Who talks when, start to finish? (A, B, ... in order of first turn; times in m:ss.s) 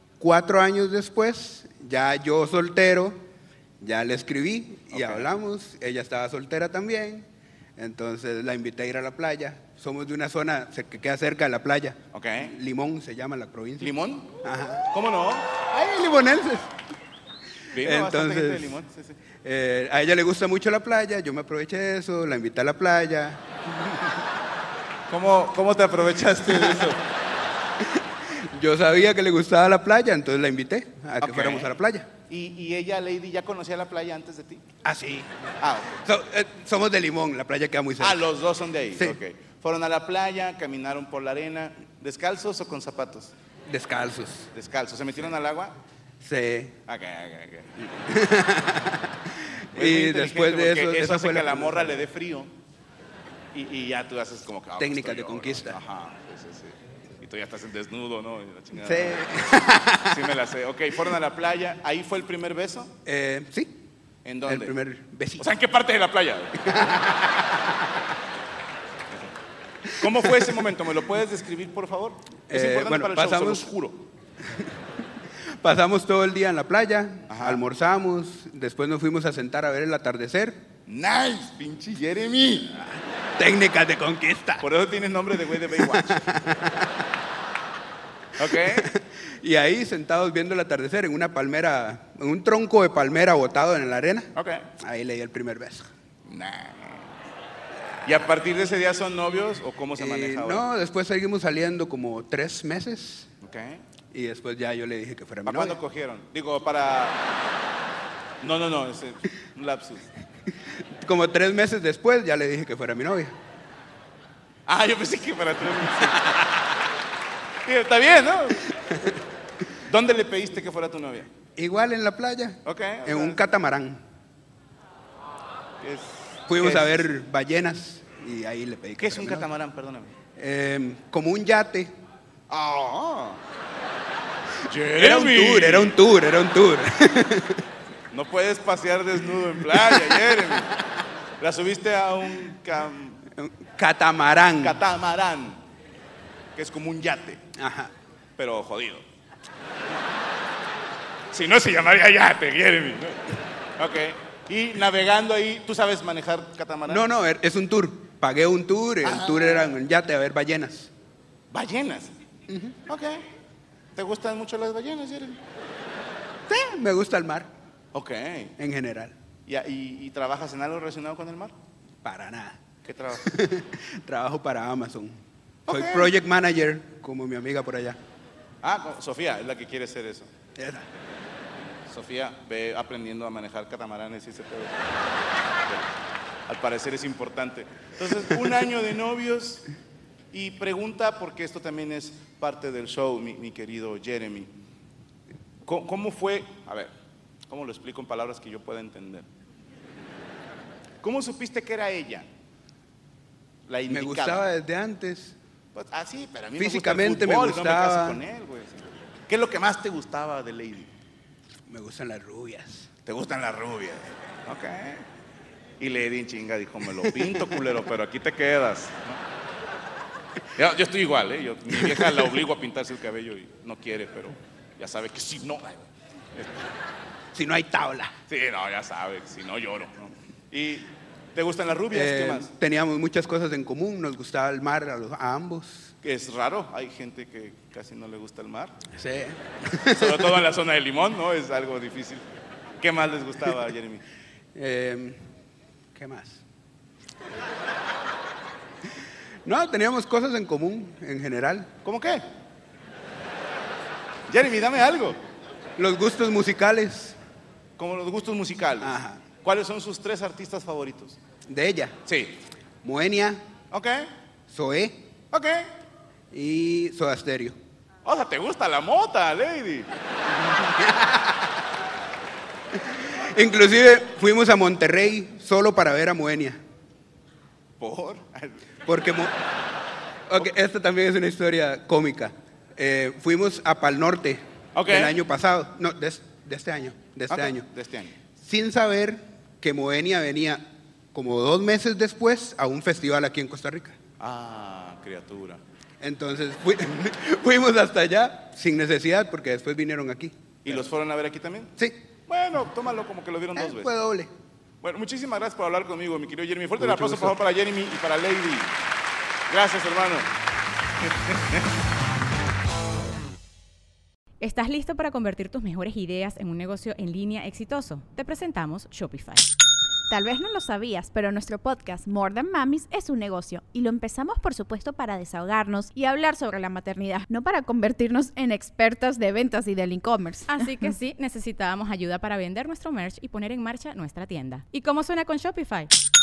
0:00.2-0:03.2 A
0:03.8-0:14.9 A
0:04.9-0:05.3 B
0:12.1-0:12.5 B
0:13.8-0:14.3 B
0:14.9-0:15.6 B
0:15.7-0:16.7 A
0:17.7-0:19.2 B
0:17.8-0:18.8 A
0:19.4-0:24.1 A
0:25.1-0:27.0 B
0:26.4-0:26.9 A
0:27.8-0:32.1 A
0:31.2-0:31.7 B
0:32.3-0:34.6 B
0:34.8-0:38.2 A
0:35.6-0:35.9 B
0:38.0-0:43.3 B
0:43.7-0:44.5 A
0:44.5-0:45.7 B
0:46.2-0:46.8 A
0:46.9-0:47.9 B
0:48.0-0:52.0 A
0:49.8-0:52.5 B
0:53.5-1:02.9 B
0:54.8-0:55.8 A
0:58.8-1:00.2 A
1:03.0-1:03.7 A
1:04.2-1:04.7 B
1:04.5-1:05.5 A
1:05.4-1:06.7 B
1:06.6-1:07.4 A
1:10.0-1:14.0 B
1:10.0-1:10.5 A
1:12.5-1:13.7 A
1:15.6-1:20.6 A
1:17.3-1:17.6 B
1:20.9-1:22.8 B
1:23.4-1:24.7 A
1:24.6-1:26.3 B
1:25.7-1:26.8 A
1:28.4-1:28.9 B
1:28.4-1:35.9 A
1:34.4-1:34.6 B
1:36.2-1:37.1 B
1:38.0-1:40.6 B
1:40.0-1:43.3 A
1:43.4-1:43.8 B
1:44.1-1:45.8 A
1:45.4-1:47.2 B
1:48.4-1:50.1 B
1:51.0-1:53.3 A
1:54.7-1:56.6 B
1:57.6-1:58.7 B
1:59.9-2:01.3 B
2:01.6-2:04.0 A
2:02.6-2:03.4 B
2:05.8-2:07.0 B
2:06.5-2:09.4 A
2:09.0-2:10.1 B
2:10.4-2:11.9 A
2:12.5-2:13.4 B
2:14.7-2:15.9 B
2:15.0-2:17.6 A
2:18.1-2:20.7 B
2:19.6-2:20.2 A
2:21.4-2:23.2 B
2:23.4-2:24.8 A
2:24.6-2:25.6 B
2:26.6-2:27.4 B
2:27.6-2:27.9 A
2:28.4-2:29.0 B
2:31.3-2:37.0 B
2:36.9-2:40.9 A
2:39.0-2:39.8 B
2:41.5-2:42.1 B
2:42.5-2:42.8 A
2:42.9-2:43.2 B
2:43.9-2:45.4 B
2:46.5-2:47.5 A
2:47.9-2:48.5 B
2:48.6-2:49.1 A
2:49.5-2:51.5 B
2:52.0-2:52.6 A
2:52.8-2:53.3 B
2:53.2-2:58.0 A
2:55.7-2:56.2 B
2:58.6-3:00.3 B
3:00.6-3:00.8 A
3:01.9-3:04.8 B
3:06.5-3:09.7 B
3:10.3-3:14.5 B
3:15.6-3:16.9 B
3:17.5-3:19.2 B
3:21.0-3:22.2 B
3:23.7-3:24.4 B
3:23.9-3:25.3 A
3:25.7-3:30.9 B
3:26.6-3:28.2 A
3:31.7-3:32.9 A
3:33.0-3:35.0 B
3:35.8-3:39.2 B
3:40.6-3:46.7 B
3:41.8-3:42.1 A
3:47.3-3:48.1 A
3:48.3-3:52.5 B
3:51.9-3:55.9 A
3:56.0-3:58.7 B
3:59.0-4:00.4 A
3:59.9-4:02.2 B
4:02.8-4:04.0 B
4:04.5-4:05.2 A
4:05.9-4:06.4 A
4:09.4-4:11.7 A
4:11.8-4:12.2 B
4:14.3-4:15.2 B
4:15.8-4:17.2 A
4:17.8-4:21.2 B
4:18.8-4:19.2 A
4:21.5-4:22.0 A
4:22.1-4:22.4 B
4:22.8-4:23.4 A
4:23.7-4:24.1 B
4:24.5-4:25.0 A
4:25.3-4:25.7 B
4:26.3-4:27.6 A
4:28.0-4:29.9 B
4:30.6-4:31.3 A
4:32.7-4:36.6 A
4:37.8-4:38.6 B
4:38.8-4:39.3 A
4:40.3-4:47.6 A
4:44.7-4:45.2 B
4:47.3-4:48.1 B
4:48.4-4:50.6 A
4:51.1-4:54.0 A
4:54.2-4:55.6 B
4:56.0-5:00.4 A
5:00.6-5:01.7 B
5:02.3-5:03.9 B
5:03.6-5:04.3 A
5:04.8-5:08.7 B
5:06.8-5:07.3 A
5:09.5-5:10.3 B
5:11.0-5:11.7 B
5:14.4-5:19.4 C
5:20.1-5:30.5 D
5:30.5-5:35.9 C